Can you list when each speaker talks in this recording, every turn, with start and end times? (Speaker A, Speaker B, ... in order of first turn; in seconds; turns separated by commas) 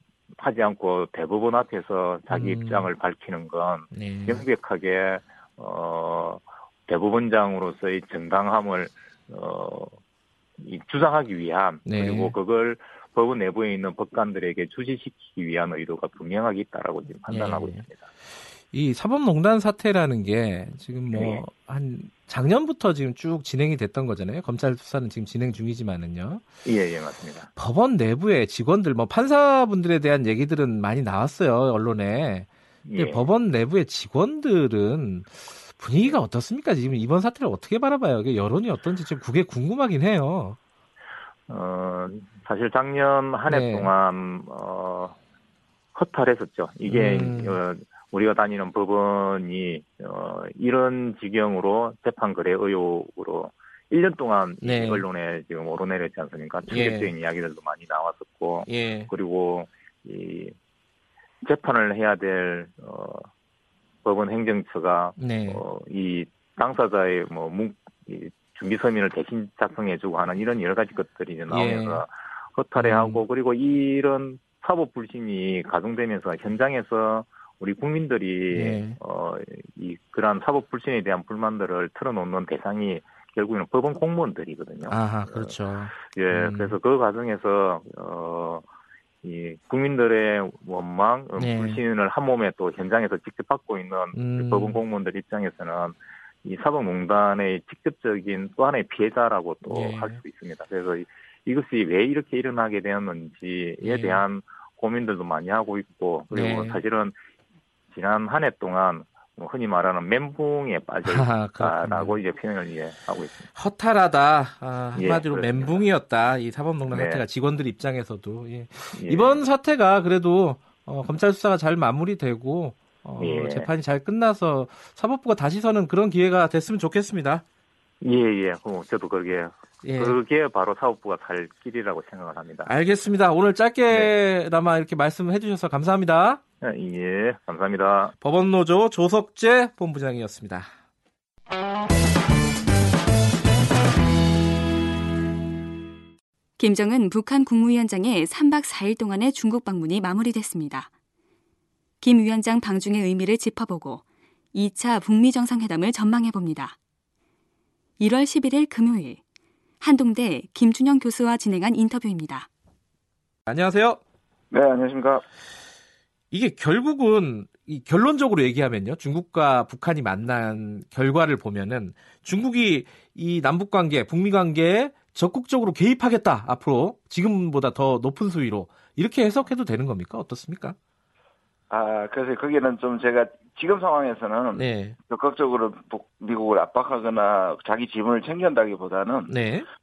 Speaker A: 0.4-10.0, Speaker B: 2.3-2.9, Speaker B: 3.9-4.5, Speaker A: 10.6-18.0, Speaker B: 11.9-12.3, Speaker B: 17.3-17.8, Speaker B: 18.7-26.4, Speaker A: 21.1-21.4, Speaker A: 26.6-27.5, Speaker B: 27.6-40.6, Speaker A: 32.9-33.3, Speaker A: 41.5-45.2, Speaker B: 43.5-43.9, Speaker A: 45.9-60.5, Speaker B: 46.9-47.6, Speaker B: 54.6-55.0, Speaker B: 56.7-57.1, Speaker B: 58.7-59.1, Speaker A: 61.4-63.3, Speaker A: 64.0-88.7, Speaker B: 65.2-65.6, Speaker B: 71.5-72.0, Speaker B: 72.8-73.2, Speaker B: 78.5-79.0, Speaker B: 84.9-86.8, Speaker A: 89.2-107.2, Speaker B: 91.4-91.8, Speaker B: 94.2-94.8, Speaker B: 99.7-100.2, Speaker B: 103.8-104.2, Speaker B: 106.3-106.8, Speaker A: 107.9-113.5, Speaker B: 111.1-112.2, Speaker B: 113.5-127.4, Speaker A: 115.0-115.9, Speaker A: 116.9-117.2, Speaker A: 118.9-119.4, Speaker A: 123.2-123.7, Speaker A: 128.0-132.7, Speaker B: 129.8-130.2, Speaker B: 132.7-136.4, Speaker A: 136.6-138.1, Speaker B: 138.2-140.7, Speaker C: 146.6-150.9, Speaker C: 152.0-156.8, Speaker C: 158.0-159.2, Speaker C: 159.8-162.5, Speaker B: 163.5-164.0, Speaker D: 164.5-165.2, Speaker B: 166.3-180.8, Speaker D: 181.7-189.3, Speaker B: 184.5-185.0, Speaker B: 189.3-189.7